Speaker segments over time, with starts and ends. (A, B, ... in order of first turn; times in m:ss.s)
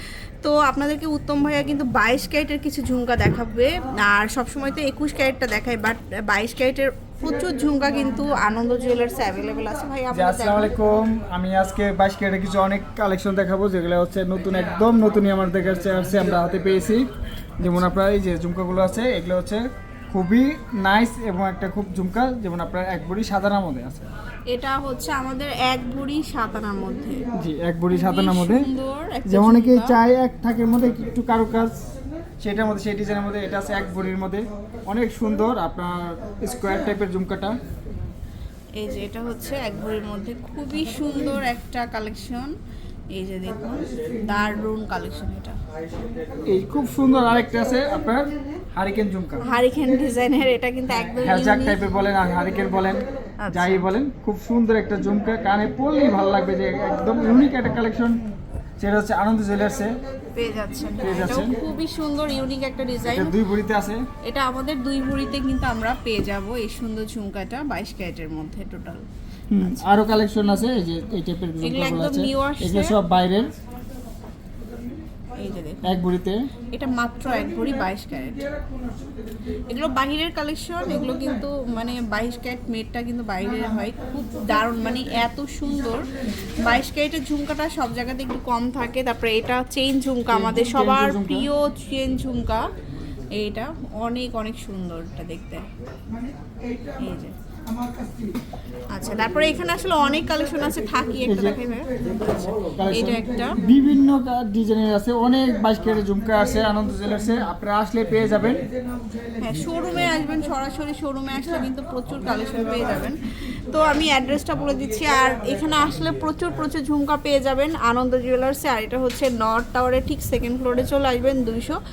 0:00.4-0:11.0 A
0:10.1-0:17.0 B
0:17.6-0:24.0 B
0:17.6-0:17.9 A
0:24.5-0:27.3 A
0:27.4-0:28.7 B
0:27.9-0:30.0 A
0:29.3-0:31.9 B
0:32.4-0:37.6 B
0:38.8-0:42.6 A
0:43.1-0:45.6 A
0:46.5-0:49.4 B
0:49.4-0:51.8 A
0:50.9-0:58.2 B
0:53.4-0:53.9 A
0:58.8-0:59.9 B
1:00.4-1:03.4 A
1:01.0-1:01.6 B
1:03.1-1:04.0 B
1:04.2-1:09.0 A
1:09.5-1:13.5 B
1:09.6-1:09.8 A
1:11.6-1:13.0 A
1:15.3-1:16.0 A
1:15.8-1:16.5 B
1:16.7-1:18.5 A
1:19.7-1:32.7 A
1:30.3-1:31.5 B
1:33.3-1:35.7 A
1:37.0-1:37.3 A
1:38.9-1:41.9 A
1:41.3-1:41.6 B
1:42.8-1:48.6 B
1:42.9-1:43.6 A
1:49.4-2:01.8 A